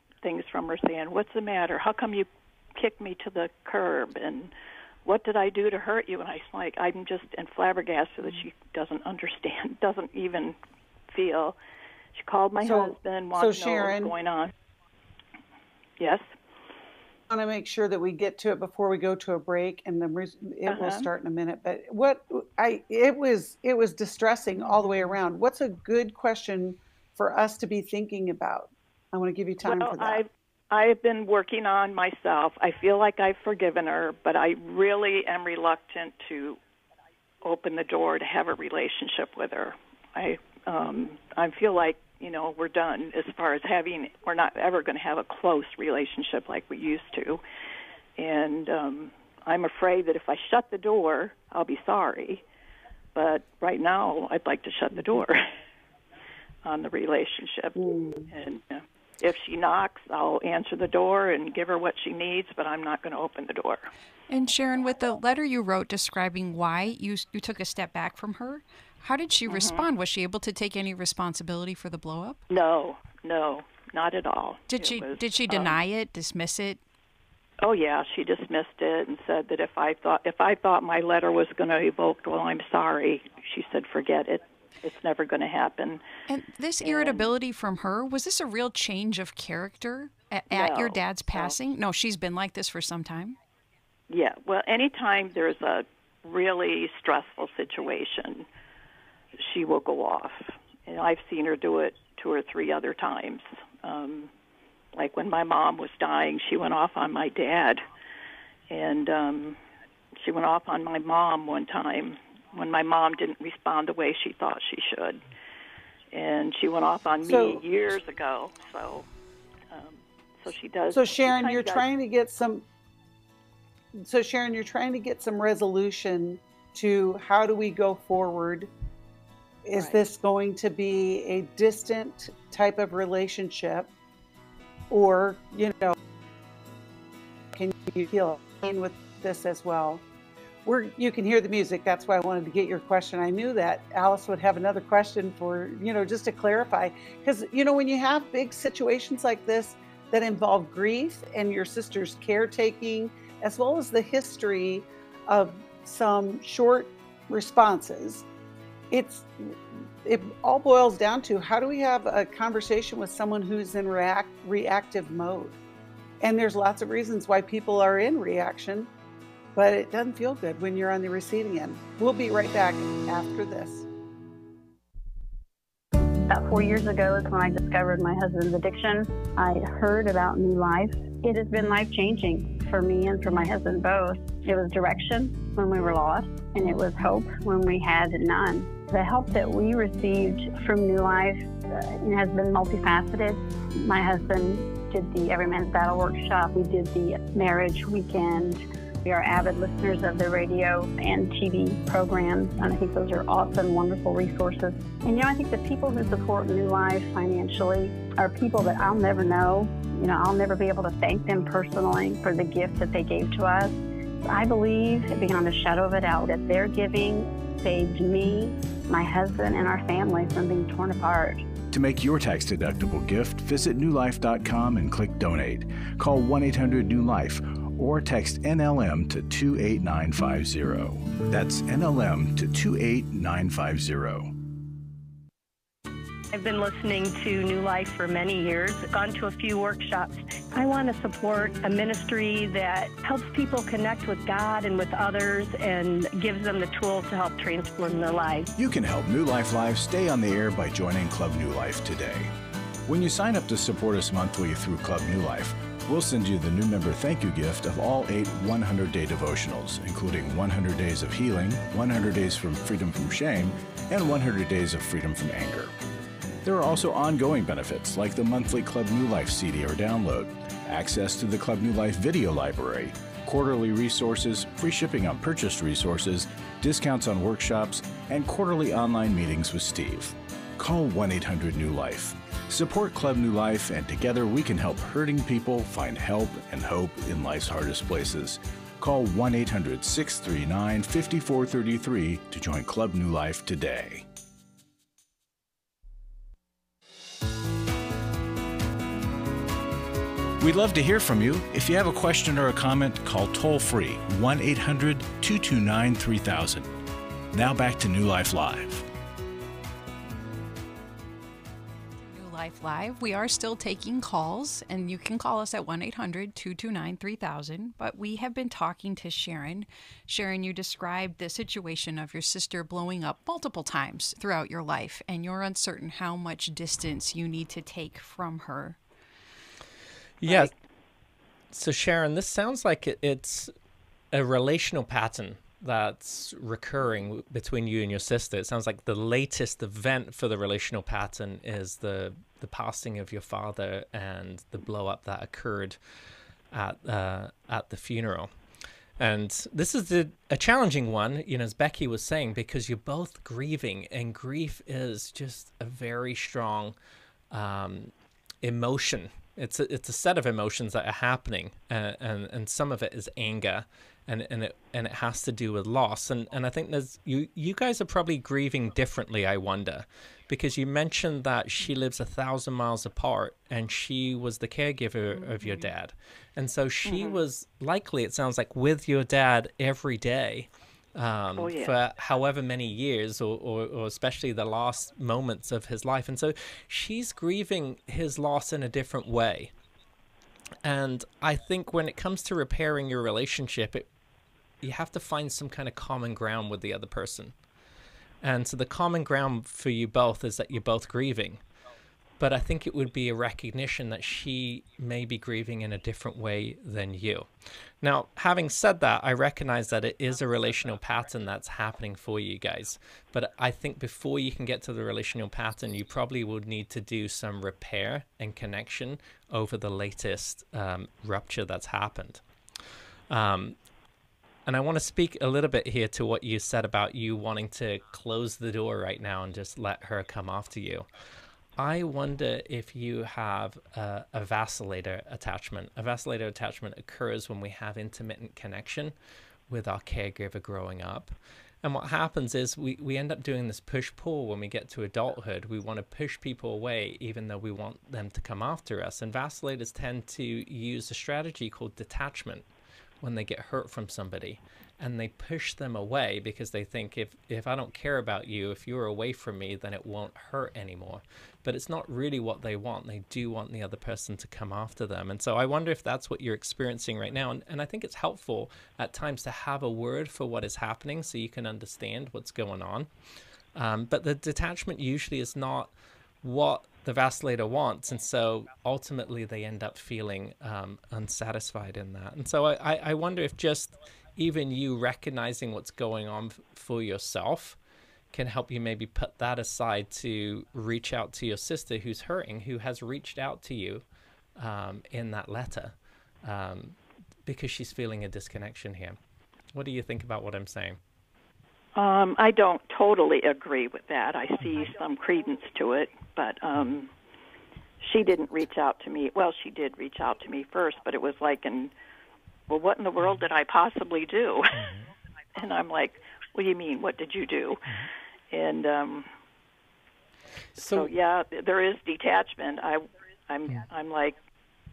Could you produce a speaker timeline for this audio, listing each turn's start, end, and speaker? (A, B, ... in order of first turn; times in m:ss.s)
0:00.2-0:04.5 A
0:05.0-0:10.6 A
0:11.1-0:11.6 A
0:12.1-0:14.5 A
0:12.6-0:14.1 B
0:16.0-0:16.2 A
0:17.3-0:30.2 B
0:20.7-0:21.1 A
0:29.6-0:36.6 A
0:37.4-0:47.4 A
0:48.2-0:52.4 A
0:53.1-0:55.5 A
0:56.6-1:03.9 A
0:57.8-0:58.3 B
1:04.3-1:12.4 C
1:09.5-1:09.9 A
1:12.5-1:15.8 A
1:14.7-1:16.8 C
1:17.6-1:26.0 A
1:26.3-1:33.4 C
1:26.8-1:27.3 A
1:30.5-1:31.5 A
1:34.1-1:38.4 A
1:39.4-1:44.3 A
1:44.9-1:47.8 A
1:48.7-1:49.6 A
1:50.2-1:55.2 A
1:56.1-1:59.1 A
1:57.2-1:57.6 B
1:59.7-2:01.8 A
2:00.9-2:02.6 B
2:04.0-2:08.7 B
2:09.6-2:13.9 B
2:09.7-2:10.0 A
2:14.9-2:15.9 B
2:17.5-2:20.0 B
2:20.6-2:38.2 B
2:38.9-2:45.6 B
2:46.2-2:48.9 B
2:49.5-2:53.8 B
2:56.3-3:41.4 D
3:41.7-3:54.3 E
3:56.3-4:08.5 F
4:08.6-4:12.3 E
4:12.9-4:25.7 E
4:26.4-4:54.0 E
5:00.4-5:06.7 E
5:07.3-5:08.8 E
5:12.1-5:28.8 C
5:30.2-5:30.5 G
5:31.5-5:33.5 G
5:34.1-5:45.8 G
5:46.5-5:48.3 G
5:49.0-5:56.7 G
5:57.3-6:29.5 G
6:16.8-6:17.2 A
6:21.4-6:21.8 A
6:30.6-6:33.9 G
6:34.6-6:37.3 G
6:38.2-6:41.4 G
6:42.2-6:47.3 G
6:47.8-7:02.2 G
7:03.1-7:03.6 G
7:04.4-7:10.9 G
7:11.6-7:18.9 G
7:19.5-7:32.4 G
7:33.0-7:52.9 G
7:53.5-8:07.6 G
8:08.1-8:13.8 G
8:14.4-8:19.0 G
8:19.5-8:20.8 G
8:21.8-8:26.9 A
8:27.8-8:31.7 A
8:32.5-8:34.7 A
8:34.5-8:34.9 G
8:35.4-8:39.1 A
8:40.6-8:44.2 A
8:40.6-8:40.9 G